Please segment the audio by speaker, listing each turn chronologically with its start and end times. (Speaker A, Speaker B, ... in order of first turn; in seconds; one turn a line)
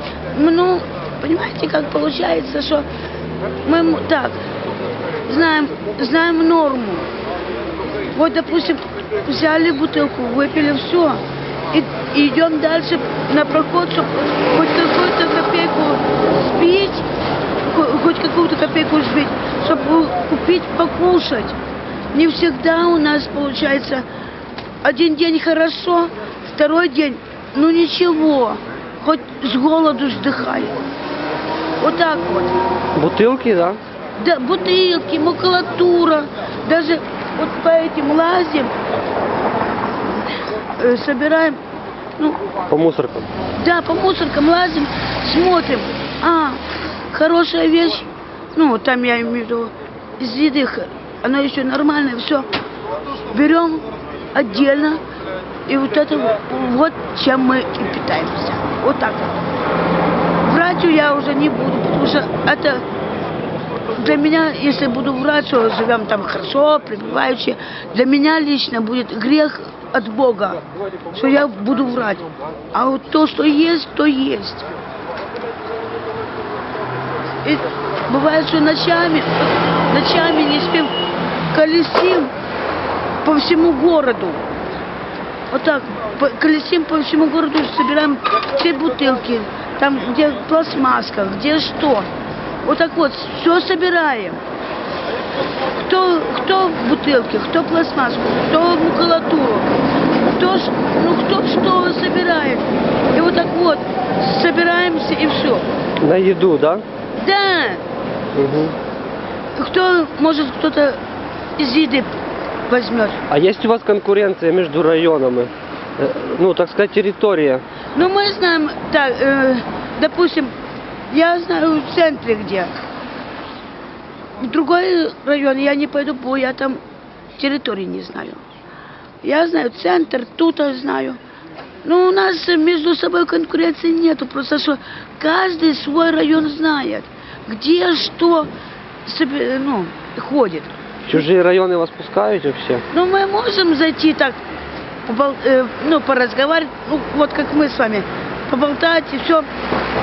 Speaker A: 0.3-2.9
Speaker A: 3.6-4.4
Speaker A: 5.3-7.1
Speaker A: 8.1-17.1
Speaker A: 17.7-21.6
Speaker A: 22.1-24.1
Speaker A: 24.8-30.8
Speaker A: 31.8-32.6
Speaker B: 33.0-33.8
Speaker A: 34.2-38.7
Speaker A: 40.0-41.6
Speaker B: 42.7-43.3
Speaker A: 43.6-52.5
Speaker A: 53.3-55.0
Speaker A: 55.7-59.4
Speaker A: 60.4-62.9
Speaker A: 63.9-70.6
Speaker A: 71.1-74.7
Speaker A: 77.4-81.0
Speaker A: 81.5-82.3
Speaker A: 83.2-84.4
Speaker A: 85.5-92.1
Speaker A: 92.7-94.4
Speaker A: 95.8-99.7
Speaker A: 100.2-105.7
Speaker B: 106.0-106.8
Speaker A: 107.2-107.8
Speaker B: 108.3-108.8
Speaker A: 109.6-111.0
Speaker A: 111.6-112.2
Speaker A: 112.7-113.2
Speaker B: 113.3-117.6
Speaker A: 118.0-120.5
Speaker A: 121.1-122.7
Speaker A: 124.4-126.8
Speaker A: 127.4-128.4
Speaker A: 129.2-131.2
Speaker A: 131.8-138.5
Speaker A: 139.1-140.8
Speaker B: 141.1-142.8
Speaker A: 142.9-144.4
Speaker A: 145.1-149.5